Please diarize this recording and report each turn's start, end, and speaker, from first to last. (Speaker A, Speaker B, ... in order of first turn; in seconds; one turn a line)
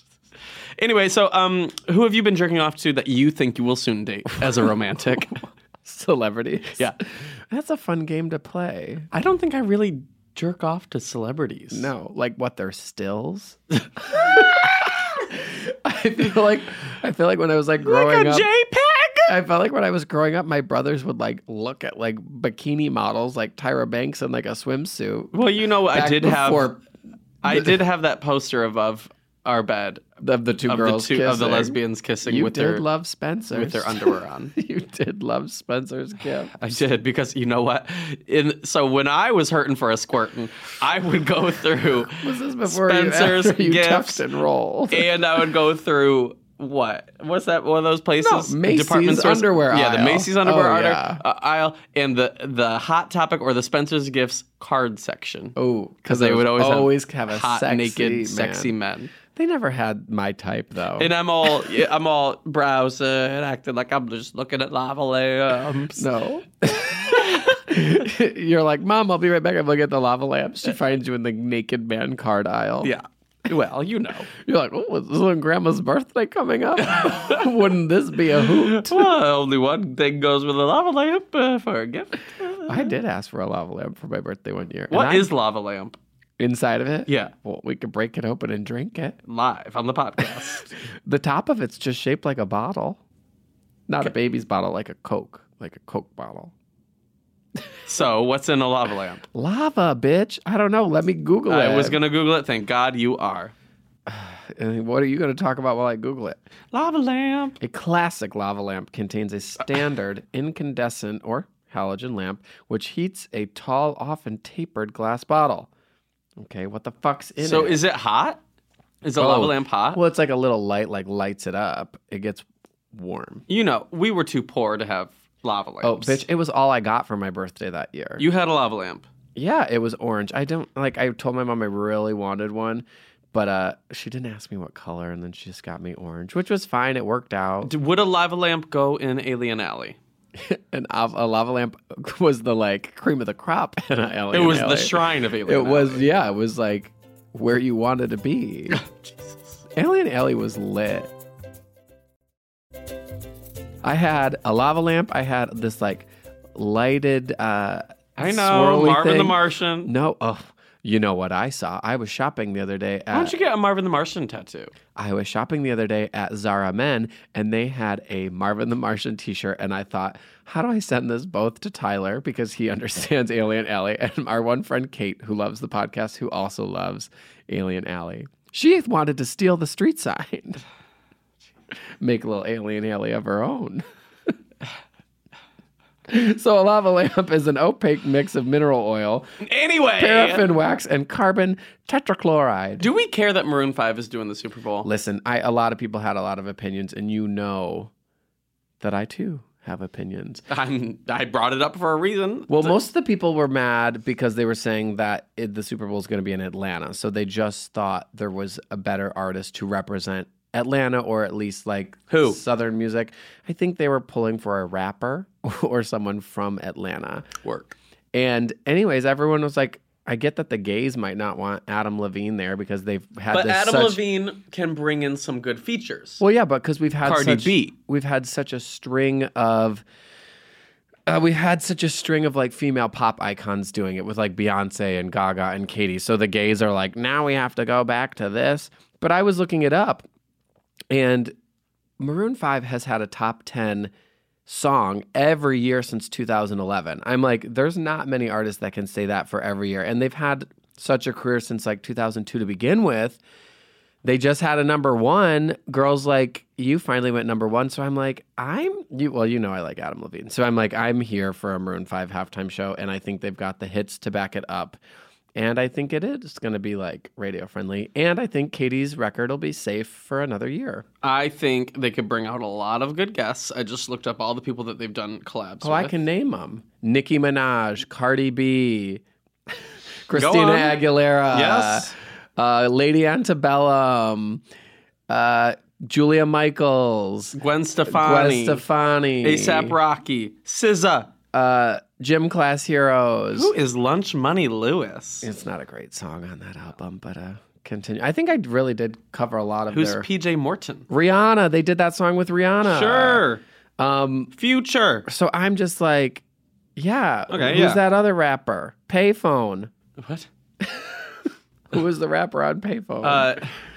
Speaker A: 0.8-5.4
Speaker B: 4.5-9.1
Speaker A: 9.1-11.9
Speaker B: 11.7-18.5
Speaker A: 14.1-14.6
Speaker A: 17.8-19.3
Speaker B: 19.3-25.4
Speaker A: 25.3-26.7
Speaker B: 25.9-26.8
Speaker A: 27.4-30.1
Speaker B: 27.4-27.8
Speaker B: 30.2-36.7
Speaker A: 30.6-32.8
Speaker A: 33.5-34.5
Speaker A: 36.6-44.2
Speaker B: 42.1-45.1
Speaker A: 44.9-59.1
Speaker B: 48.2-51.2
Speaker B: 55.5-58.7
Speaker B: 59.2-61.1
Speaker A: 61.0-66.1
Speaker B: 66.0-72.9
Speaker A: 67.1-67.4
Speaker A: 72.8-74.3
Speaker B: 74.3-79.1
Speaker A: 76.9-77.4
Speaker A: 78.4-82.9
Speaker B: 82.7-85.3
Speaker A: 84.9-86.0
Speaker B: 86.4-89.2
Speaker A: 87.1-87.3
Speaker A: 89.2-90.7
Speaker B: 90.8-93.0
Speaker B: 93.9-96.5
Speaker A: 97.8-99.2
Speaker B: 99.3-102.0
Speaker A: 101.5-103.5
Speaker B: 104.0-106.4
Speaker A: 106.7-107.6
Speaker B: 107.6-115.7
Speaker B: 116.4-117.8
Speaker A: 117.4-118.4
Speaker A: 119.0-120.0
Speaker B: 119.2-123.4
Speaker A: 123.5-126.2
Speaker B: 125.8-128.2
Speaker A: 128.2-129.1
Speaker B: 129.3-137.7
Speaker A: 137.6-140.0
Speaker B: 140.3-148.8
Speaker A: 144.3-146.1
Speaker A: 148.7-149.6
Speaker B: 149.8-151.1
Speaker B: 153.8-163.4
Speaker A: 158.2-159.9
Speaker A: 163.1-164.7
Speaker B: 164.9-180.6
Speaker B: 182.0-183.8
Speaker B: 186.1-189.3
Speaker A: 189.4-190.5
Speaker B: 190.0-192.8
Speaker A: 192.8-194.9
Speaker B: 194.8-197.9
Speaker B: 198.8-200.4
Speaker A: 200.5-202.8
Speaker B: 202.5-217.3
Speaker A: 212.1-212.4
Speaker A: 217.4-217.8
Speaker B: 218.1-224.0
Speaker A: 223.3-226.2
Speaker B: 226.2-229.8
Speaker A: 227.0-227.7
Speaker B: 231.1-240.0
Speaker B: 240.9-241.3
Speaker B: 242.0-243.9
Speaker B: 244.5-253.2
Speaker B: 254.0-264.8
Speaker B: 265.4-270.9
Speaker A: 271.0-275.9
Speaker B: 275.6-279.6
Speaker B: 280.1-284.4
Speaker A: 280.1-280.8
Speaker A: 281.3-281.9
Speaker B: 285.1-287.4
Speaker A: 287.3-288.6
Speaker B: 287.9-289.8
Speaker A: 289.2-291.1
Speaker B: 291.3-293.5
Speaker A: 293.3-295.3
Speaker B: 295.2-300.1
Speaker A: 299.7-300.9
Speaker B: 300.9-303.2
Speaker A: 302.6-303.4
Speaker B: 303.8-304.3
Speaker A: 304.3-305.1
Speaker B: 305.1-306.2
Speaker B: 306.8-309.7
Speaker A: 307.3-307.8
Speaker A: 310.0-310.3
Speaker B: 310.6-313.4
Speaker A: 313.0-313.5